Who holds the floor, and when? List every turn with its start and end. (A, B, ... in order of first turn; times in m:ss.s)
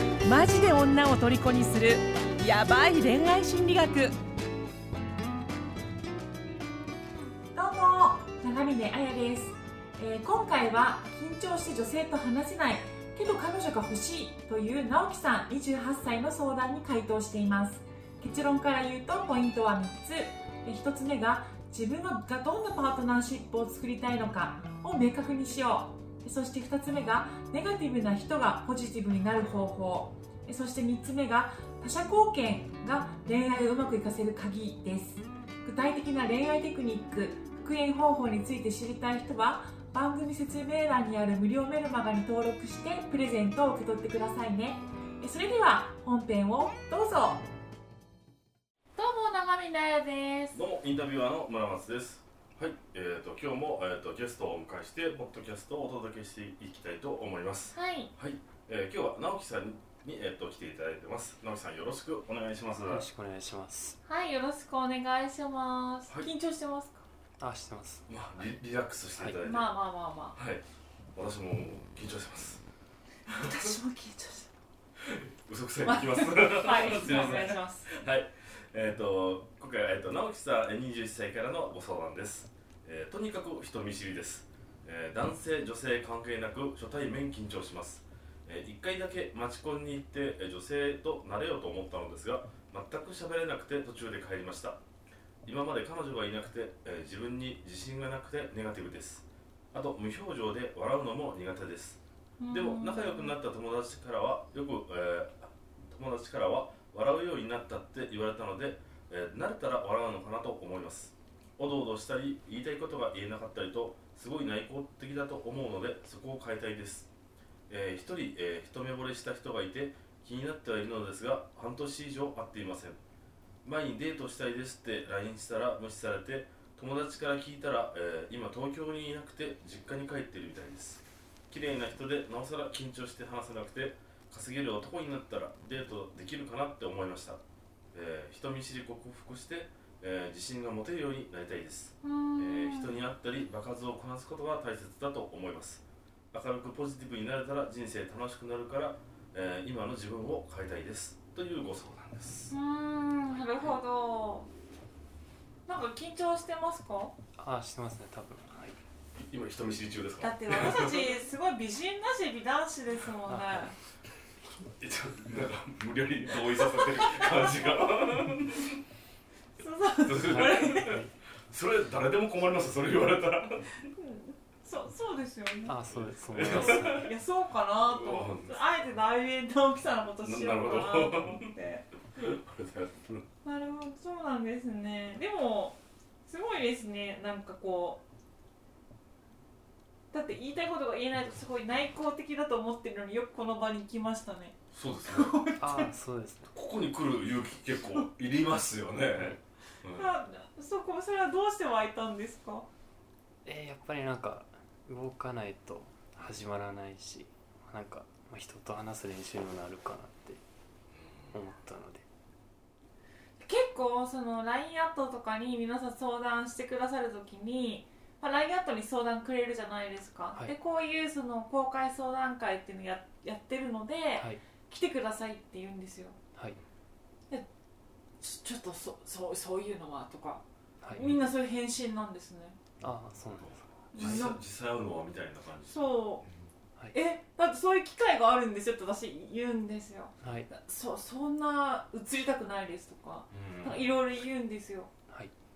0:00.2-0:04.1 A
0:07.5-0:47.5 B
0:49.0-0:50.6 B
0:50.5-1:03.0 C
0:57.7-0:58.1 B
1:02.7-1:04.0 D
1:04.0-1:07.0 B
1:07.4-1:08.1 D
1:08.1-1:09.7 C
1:09.4-1:10.4 B
1:10.3-1:10.6 C
1:11.1-1:12.6 C
1:13.3-1:14.5 B
1:13.3-1:13.7 C
1:15.0-1:34.8 C
1:15.8-1:17.9 B
1:35.4-1:42.0 C
1:42.4-1:43.3 B
1:42.5-1:57.1 C
1:57.7-2:03.0 C
2:03.6-2:17.4 C
2:17.9-2:32.6 C
2:22.0-2:23.0 B
2:32.5-2:34.5 B
2:35.7-2:37.1 B
2:37.4-2:38.8 D
2:39.2-2:41.1 C
2:40.2-2:43.7 B
2:43.3-2:43.7 D
2:44.8-2:48.8 C
2:46.6-2:47.7 B
2:49.6-2:51.0 B
2:50.0-2:51.0 C
2:50.2-2:51.1 D
2:51.5-2:53.8 C
2:53.8-2:55.8 B
2:55.6-2:57.1 D
2:55.9-2:57.1 C
2:56.3-3:01.8 B
2:57.8-2:58.6 C
3:00.2-3:01.5 C
3:02.1-3:03.3 C
3:03.4-3:08.0 B
3:10.1-3:15.9 B
3:14.7-3:15.3 C
3:15.6-3:16.5 D
3:16.5-3:20.2 C
3:19.9-3:22.7 B
3:23.4-3:30.4 D
3:30.9-3:31.3 C
3:31.3-3:32.0 D
3:33.4-3:46.2 B
3:48.2-3:50.4 B
3:50.9-3:52.6 B
3:51.0-3:51.3 C
3:52.8-3:54.1 D
3:53.4-3:55.9 C
3:53.9-3:54.4 B
3:55.7-3:56.2 B
3:56.9-4:04.9 B
4:00.2-4:00.5 D
4:03.3-4:03.9 C